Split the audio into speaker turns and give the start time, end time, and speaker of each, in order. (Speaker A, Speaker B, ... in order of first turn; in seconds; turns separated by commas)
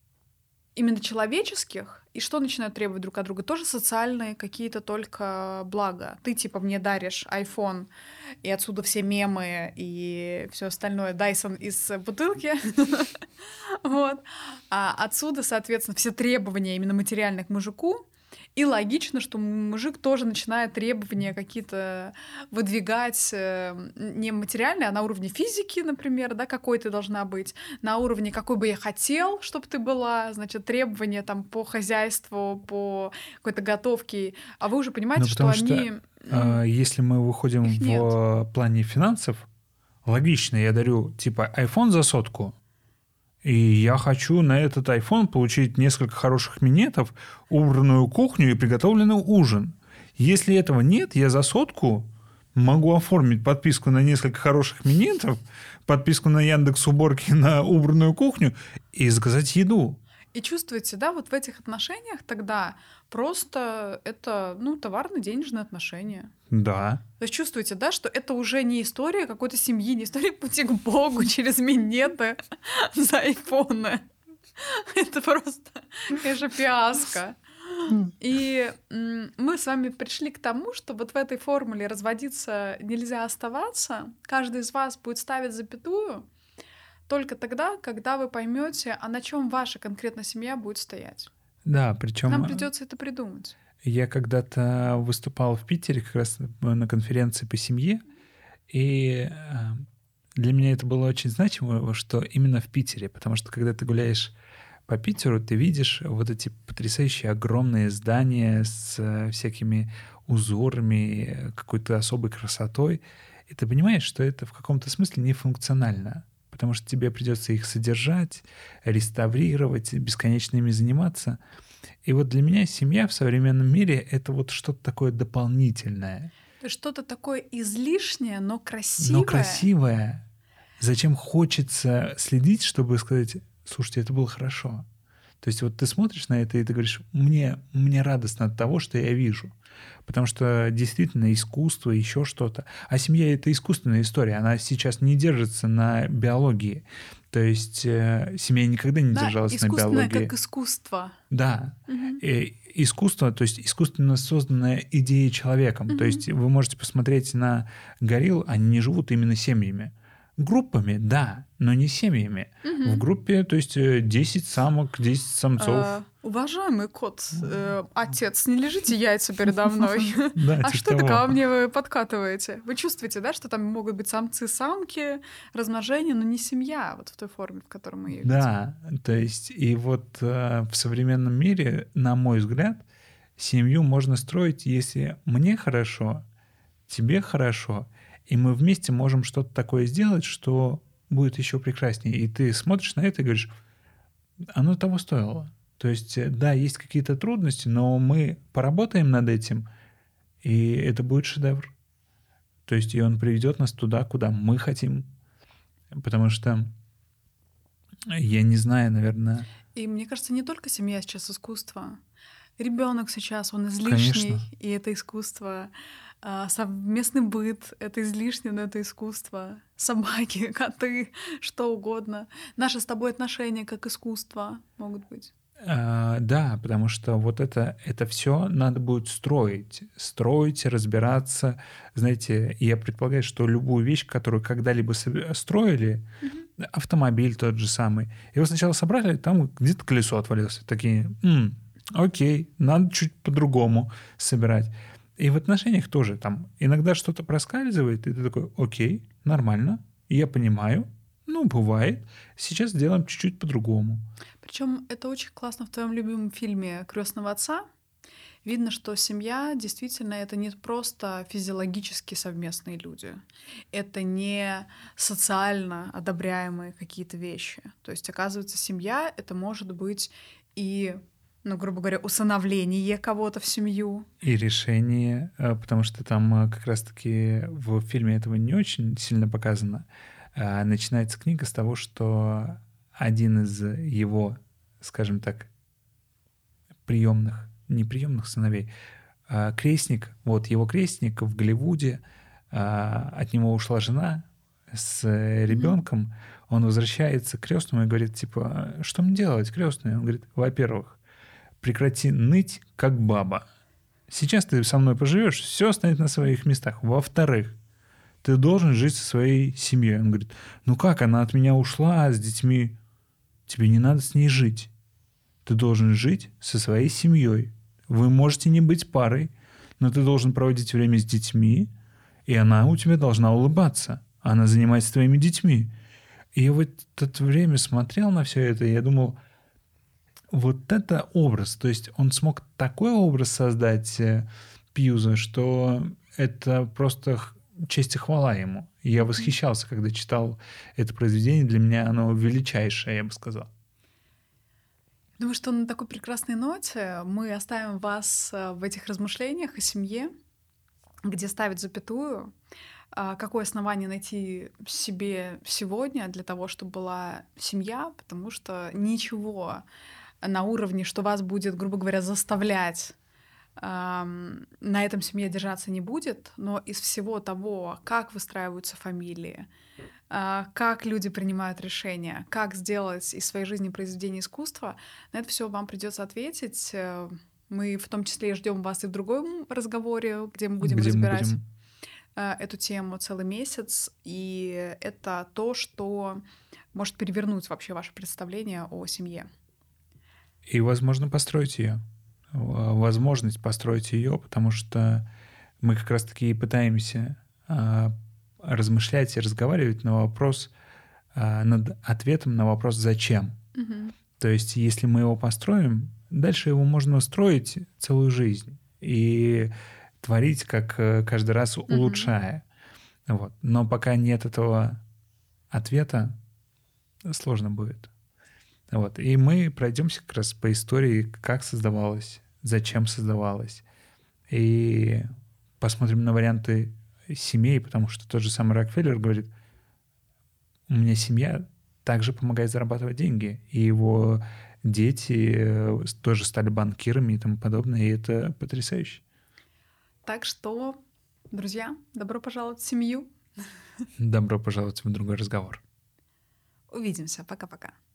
Speaker A: 0.8-7.9, Speaker A: 8.4-36.6, Speaker B: 35.1-39.5, Speaker A: 37.6-38.1, Speaker B: 40.0-42.5, Speaker B: 43.4-60.0, Speaker A: 60.3-66.3, Speaker B: 66.5-67.0, Speaker A: 67.2-86.3, Speaker A: 87.1-91.3, Speaker B: 91.7-92.7, Speaker A: 92.3-93.6, Speaker B: 93.8-98.0, Speaker B: 98.7-99.8, Speaker B: 100.4-104.3, Speaker B: 104.9-121.4, Speaker B: 122.0-126.3, Speaker A: 126.6-129.7, Speaker B: 129.0-130.2, Speaker B: 130.8-134.8, Speaker B: 135.4-139.5, Speaker B: 140.1-150.3, Speaker A: 149.1-151.2, Speaker B: 151.3-165.9, Speaker A: 151.9-152.2, Speaker A: 155.9-156.2, Speaker A: 162.6-163.0, Speaker A: 165.6-178.5, Speaker B: 170.3-171.3, Speaker B: 178.1-182.8, Speaker B: 183.4-186.2, Speaker B: 186.9-193.5, Speaker B: 194.5-199.7, Speaker B: 200.4-201.7, Speaker B: 202.7-205.1, Speaker B: 205.9-206.7, Speaker B: 208.1-209.5, Speaker A: 209.7-212.0, Speaker A: 212.6-225.3, Speaker B: 213.8-214.4, Speaker B: 225.6-236.1, Speaker B: 236.6-254.1, Speaker A: 254.4-257.6, Speaker A: 258.4-274.1, Speaker B: 274.2-285.5, Speaker B: 286.8-288.7, Speaker B: 289.3-301.0, Speaker A: 295.5-295.7, Speaker B: 301.6-303.4, Speaker B: 304.1-307.6, Speaker B: 308.2-312.8, Speaker B: 313.5-314.7, Speaker B: 315.4-321.7, Speaker B: 322.2-325.7, Speaker B: 326.3-329.2, Speaker B: 330.3-343.5, Speaker A: 339.0-339.3, Speaker A: 345.2-350.1, Speaker A: 351.0-352.3, Speaker A: 352.9-359.6, Speaker A: 360.2-362.9, Speaker A: 363.6-369.5, Speaker A: 370.1-381.4, Speaker B: 380.6-381.4, Speaker A: 382.1-386.2, Speaker A: 386.7-389.3, Speaker B: 390.5-391.8, Speaker B: 392.3-395.1, Speaker B: 395.6-400.5, Speaker B: 401.1-403.4, Speaker A: 403.5-403.9, Speaker B: 404.2-412.4, Speaker A: 411.7-412.1, Speaker B: 413.1-414.8, Speaker B: 415.5-416.2, Speaker B: 417.1-417.9, Speaker B: 418.7-423.6, Speaker B: 424.3-425.1, Speaker B: 425.6-429.3, Speaker B: 430.7-439.0, Speaker A: 440.0-440.8, Speaker A: 441.3-443.2, Speaker B: 444.0-445.6, Speaker A: 446.7-447.8